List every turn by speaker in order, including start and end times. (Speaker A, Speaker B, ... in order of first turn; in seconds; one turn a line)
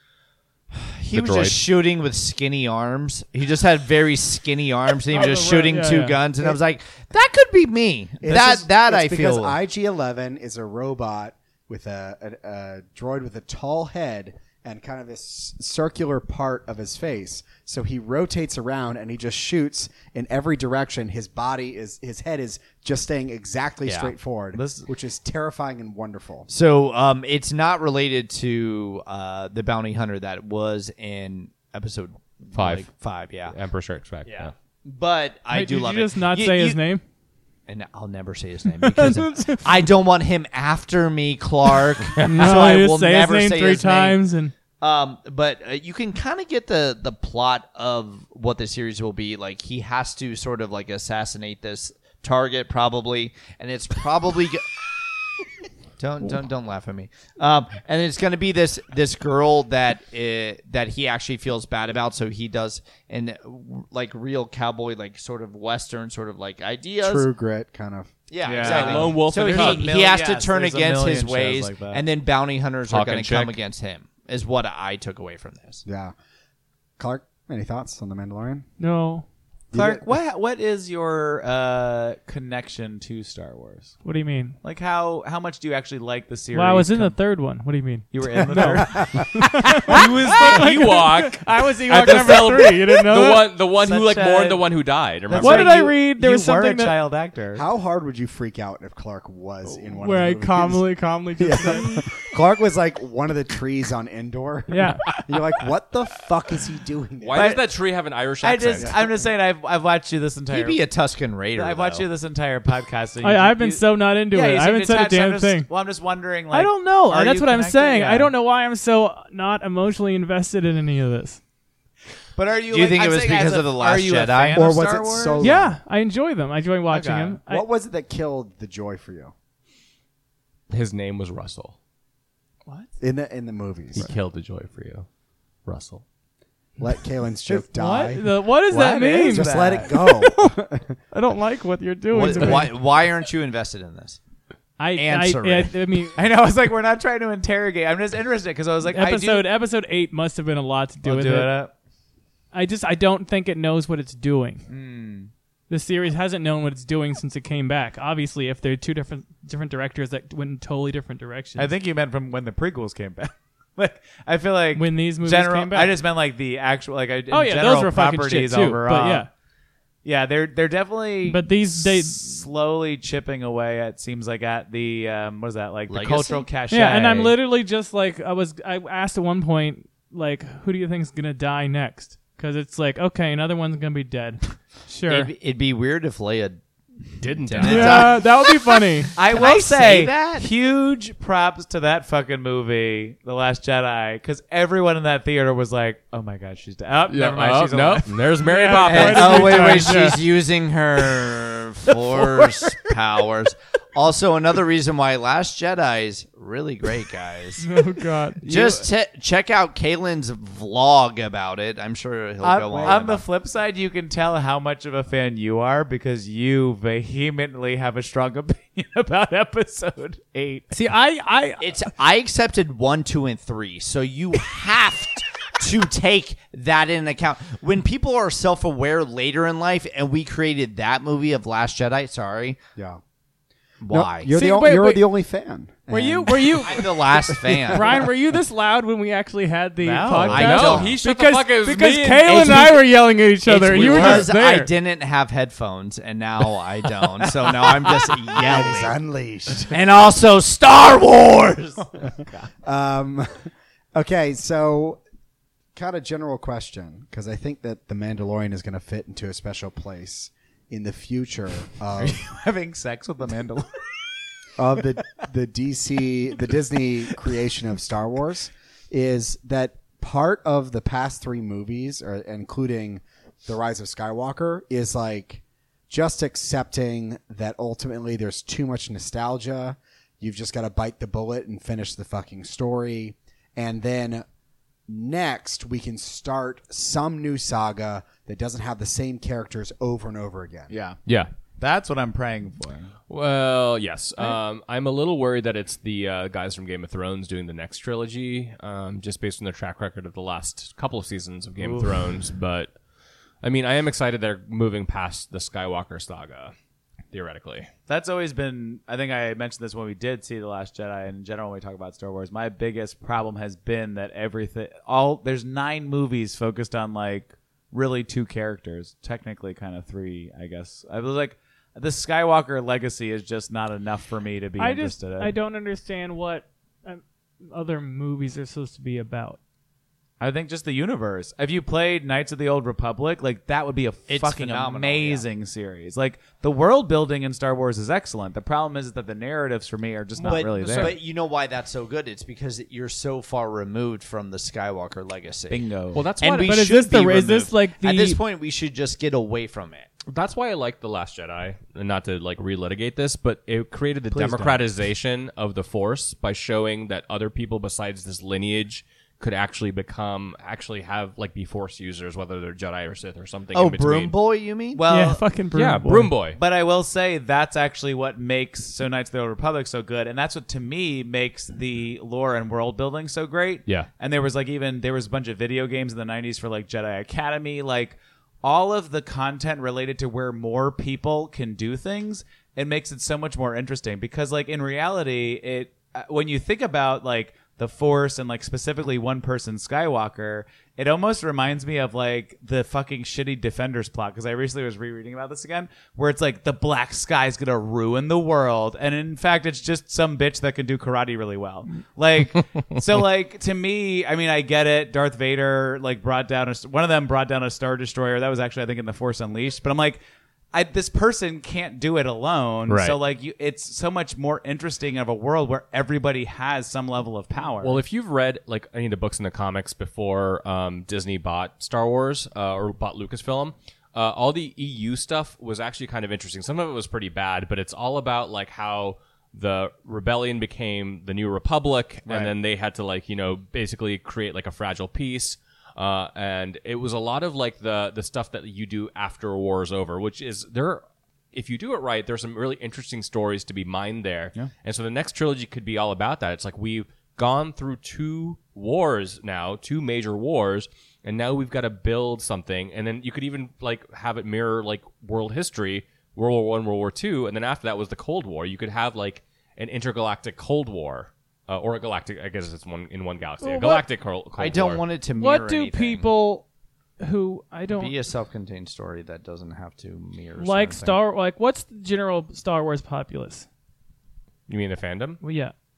Speaker A: 0.7-9.6
Speaker B: 1.1-1.6
Speaker C: 5.1-6.2
Speaker D: 8.2-26.5
Speaker A: 23.9-24.1
Speaker E: 24.5-24.9
Speaker A: 26.5-33.6
Speaker B: 32.5-32.9
Speaker B: 33.5-34.5
Speaker A: 34.2-36.8
Speaker C: 35.5-37.0
Speaker A: 37.7-44.2
Speaker C: 38.8-39.6
Speaker C: 42.2-44.5
Speaker A: 44.8-54.8
Speaker A: 56.0-67.3
Speaker D: 67.0-68.1
Speaker A: 68.3-75.8
Speaker E: 68.4-72.0
Speaker B: 68.6-69.9
Speaker B: 72.9-73.6
Speaker D: 75.9-76.1
Speaker D: 77.0-78.7
Speaker C: 78.8-79.3
Speaker D: 79.7-80.0
Speaker E: 79.7-84.0
Speaker C: 84.0-84.6
Speaker E: 84.6-87.2
Speaker C: 86.5-93.5
Speaker E: 88.1-90.8
Speaker D: 88.8-89.3
Speaker B: 90.0-95.8
Speaker E: 92.0-92.6
Speaker E: 93.8-94.7
Speaker E: 95.3-97.7
Speaker C: 95.4-97.0
Speaker D: 97.5-107.5
Speaker C: 100.0-102.2
Speaker C: 104.7-105.0
Speaker B: 107.2-108.9
Speaker E: 107.3-107.7
Speaker E: 108.4-110.8
Speaker A: 110.5-112.1
Speaker E: 111.5-118.3
Speaker C: 113.2-115.7
Speaker C: 116.5-121.4
Speaker E: 122.3-125.5
Speaker A: 122.7-124.7
Speaker D: 124.5-125.8
Speaker C: 125.4-127.6
Speaker E: 126.9-127.4
Speaker D: 127.5-129.3
Speaker B: 130.7-131.8
Speaker D: 133.0-134.1
Speaker B: 133.9-135.1
Speaker B: 135.7-136.0
Speaker D: 136.8-138.3
Speaker C: 137.5-140.6
Speaker E: 138.7-140.0
Speaker D: 139.3-140.9
Speaker C: 141.1-142.7
Speaker A: 142.1-144.2
Speaker C: 144.8-146.2
Speaker A: 144.9-145.7
Speaker E: 146.2-149.5
Speaker C: 148.9-151.6
Speaker E: 151.0-151.7
Speaker C: 152.5-154.6
Speaker E: 154.7-155.3
Speaker C: 155.7-161.7
Speaker E: 161.6-169.3
Speaker C: 164.8-166.0
Speaker C: 167.3-169.3
Speaker E: 170.0-177.4
Speaker C: 171.3-172.2
Speaker A: 175.9-176.5
Speaker C: 176.7-185.3
Speaker A: 185.1-190.5
Speaker B: 187.2-188.1
Speaker C: 187.6-189.1
Speaker E: 189.2-198.2
Speaker B: 197.1-199.9
Speaker C: 198.4-200.3
Speaker A: 198.8-207.7
Speaker C: 207.6-208.6
Speaker A: 208.4-213.2
Speaker E: 208.5-208.8
Speaker E: 212.4-220.7
Speaker C: 220.7-221.7
Speaker A: 221.6-232.6
Speaker A: 233.8-234.3
Speaker D: 233.9-238.0
Speaker C: 234.3-235.0
Speaker C: 235.9-244.7
Speaker A: 236.6-238.0
Speaker E: 239.8-240.6
Speaker A: 240.2-241.0
Speaker B: 240.3-242.7
Speaker A: 242.4-242.9
Speaker A: 243.4-249.0
Speaker D: 248.3-249.8
Speaker A: 249.7-251.8
Speaker D: 252.6-255.0
Speaker D: 255.8-262.2
Speaker E: 261.9-263.7
Speaker D: 264.6-284.2
Speaker D: 284.9-290.7
Speaker E: 290.7-291.0
Speaker E: 291.6-292.9
Speaker B: 293.1-302.7
Speaker E: 301.6-302.0
Speaker B: 303.4-306.5
Speaker B: 307.1-307.7
Speaker E: 307.9-325.3
Speaker C: 324.6-329.4
Speaker E: 330.2-341.0
Speaker A: 334.1-335.2
Speaker A: 340.2-345.6
Speaker B: 340.6-341.0
Speaker E: 345.5-346.1
Speaker B: 345.9-346.6
Speaker A: 346.2-349.9
Speaker C: 346.4-348.2
Speaker B: 350.1-364.1
Speaker A: 354.1-354.6
Speaker A: 363.5-364.9
Speaker E: 364.8-365.2
Speaker C: 364.9-366.1
Speaker B: 365.5-366.4
Speaker E: 366.4-410.0
Speaker E: 410.5-417.8
Speaker B: 412.7-413.0
Speaker B: 417.6-464.8
Speaker C: 463.4-463.8
Speaker A: 464.4-466.1
Speaker C: 465.2-466.5
Speaker C: 467.0-467.9
Speaker A: 467.7-471.0
Speaker C: 470.4-473.5
Speaker B: 474.5-475.2
Speaker C: 475.2-475.5